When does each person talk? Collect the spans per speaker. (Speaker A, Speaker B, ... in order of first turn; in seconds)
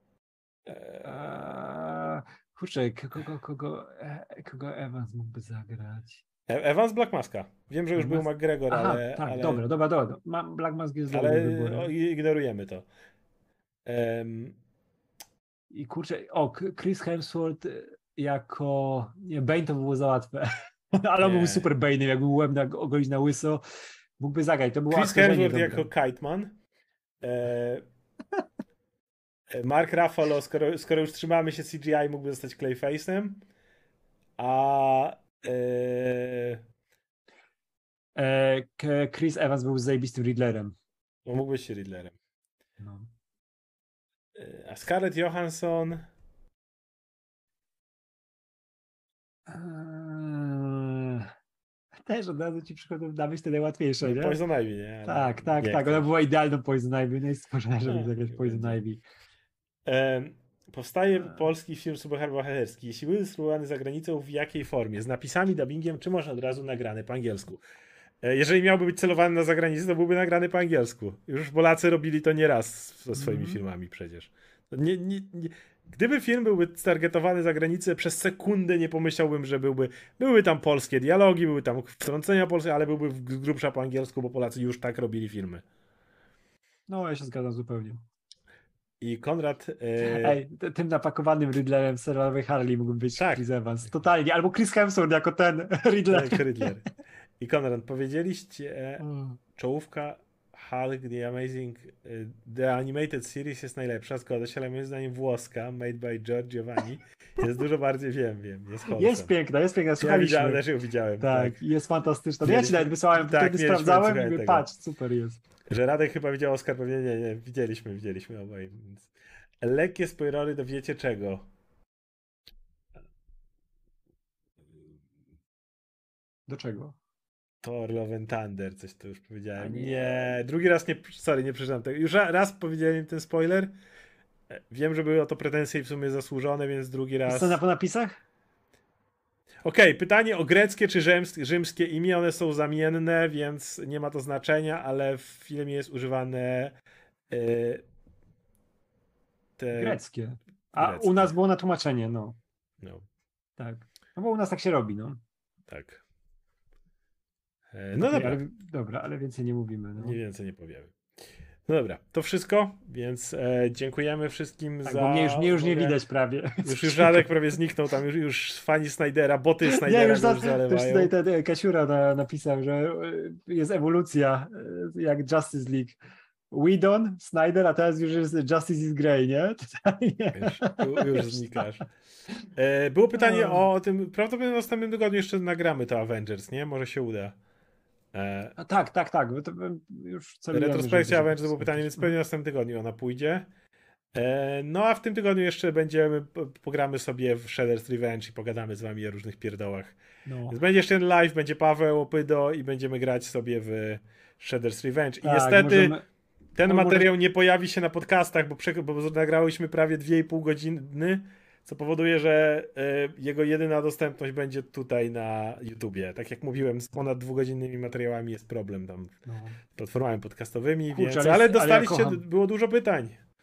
Speaker A: 0.7-1.1, 6.5-9.6, 11.1-12.9, 13.8-14.6, 21.2-21.7, 24.9-26.6, 27.2-27.8, 29.5-33.4, 34.4-36.6, 41.2-42.2, 44.3-46.1, 54.0-56.1, 57.9-58.8, 59.9-67.6, 68.2-85.6, 89.0-90.4, 93.2-93.4, 96.1-96.8, 97.4-99.0, 99.5-109.3, 110.0-111.6, 112.4-114.7, 115.7-119.1, 119.6-121.5, 127.6-133.7, 134.5-137.6, 139.6-146.8, 147.3-147.8, 149.6-150.0, 150.8-151.3, 152.8-153.1, 155.7-156.0, 157.7-158.4, 160.0-160.9, 161.7-166.0, 166.6-171.1, 180.3-181.8, 182.6-187.3, 188.1-188.6, 190.5-193.4, 194.1-200.0, 200.5-205.9, 206.6-219.2, 219.7-223.2
Speaker B: 1.0-6.2, 7.9-11.9, 15.7-23.6, 24.2-25.9, 38.1-40.7, 42.8-43.1, 49.5-51.3, 52.0-54.4, 55.0-59.0, 73.1-73.6, 86.9-88.0, 90.0-96.7, 99.0-99.4, 108.8-110.6, 111.2-115.4, 126.5-127.0, 129.6-130.4, 137.2-138.2, 149.7-152.4, 153.6-155.2, 158.0-160.2, 164.8-167.3, 169.6-176.0, 176.5-181.6, 183.2-183.7, 188.6-192.1, 200.2-200.6, 205.2-206.1, 206.6-207.1, 219.2-219.6, 220.9-222.2